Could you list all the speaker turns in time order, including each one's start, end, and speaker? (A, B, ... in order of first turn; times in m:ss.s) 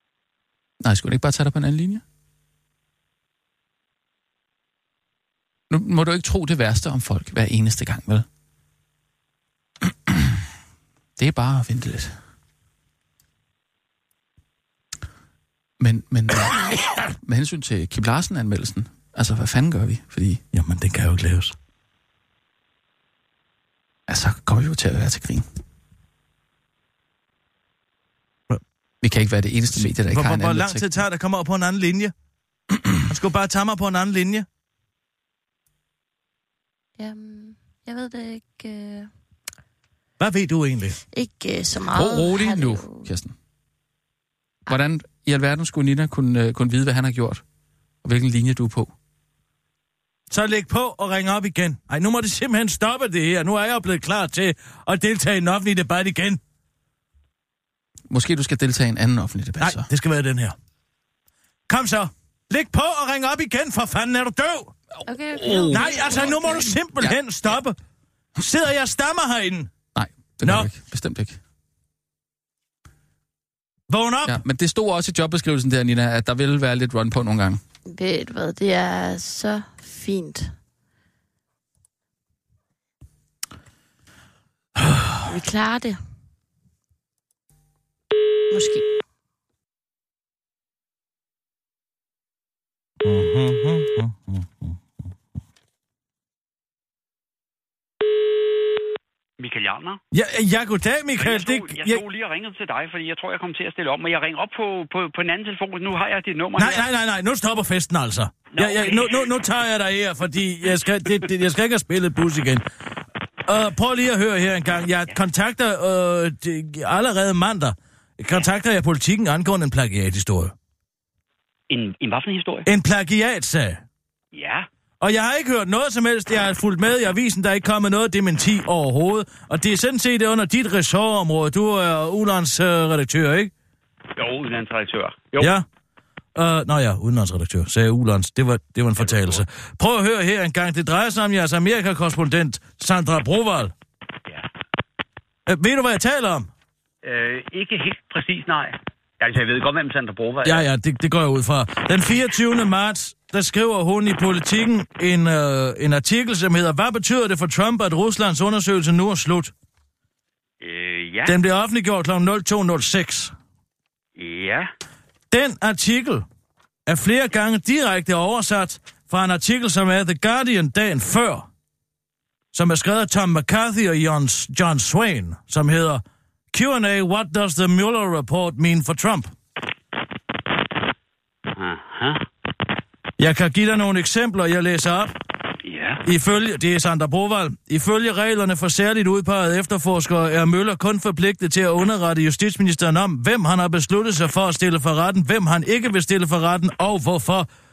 0:00.8-0:02.0 A
0:05.7-0:08.2 A
0:10.1-0:10.3 A
0:11.2-0:12.2 A
0:15.8-0:20.4 A
0:20.5-0:21.5 B
0:24.1-0:25.4 A
0:29.0-0:31.0 A
0:29.7-0:32.1 B
0:33.1-0:34.4 B
0:37.0-0:39.1 C
0:40.2-0:41.0 B
0:41.1-0:43.0 C
0:41.9-0:43.3 A
0:44.7-0:47.4 A
0:48.0-0:48.9 A
0:50.3-0:56.4 B
0:58.1-0:59.9 A
0:59.6-1:00.6 B
1:01.7-1:04.7 B
1:05.1-1:06.7 C
1:05.3-1:06.4 A
1:05.7-1:07.8 B
1:08.4-1:09.7 B
1:09.9-1:11.4 A
1:10.4-1:10.7 B
1:13.9-1:14.4 B
1:14.2-1:17.6 A
1:17.9-1:20.5 C
1:24.8-1:25.1 B
1:25.3-1:26.0 C
1:28.5-1:28.9 C
1:33.0-1:34.7 B
1:39.4-1:40.0 D
1:40.1-1:42.0 B
1:41.2-1:46.8 D
1:46.6-1:52.6 B
1:48.5-1:49.3 D
1:53.4-2:00.5 B
2:01.7-2:02.7 D
2:02.6-2:03.8 B
2:04.3-2:04.7 D
2:05.0-2:13.5 B
2:14.2-2:15.5 D
2:15.4-2:15.6 B
2:16.3-2:23.7 B
2:19.0-2:19.4 D
2:25.5-2:26.5 B
2:27.0-2:30.6 D
2:30.4-2:39.5 B
2:40.6-2:41.4 D
2:41.2-2:43.3 B
2:44.2-2:44.7 D
2:45.3-2:46.2 B
2:46.9-2:51.5 B
2:52.5-2:59.3 B
3:01.5-3:02.2 D
3:03.2-3:05.1 B
3:05.6-3:06.0 D
3:06.0-3:17.5 B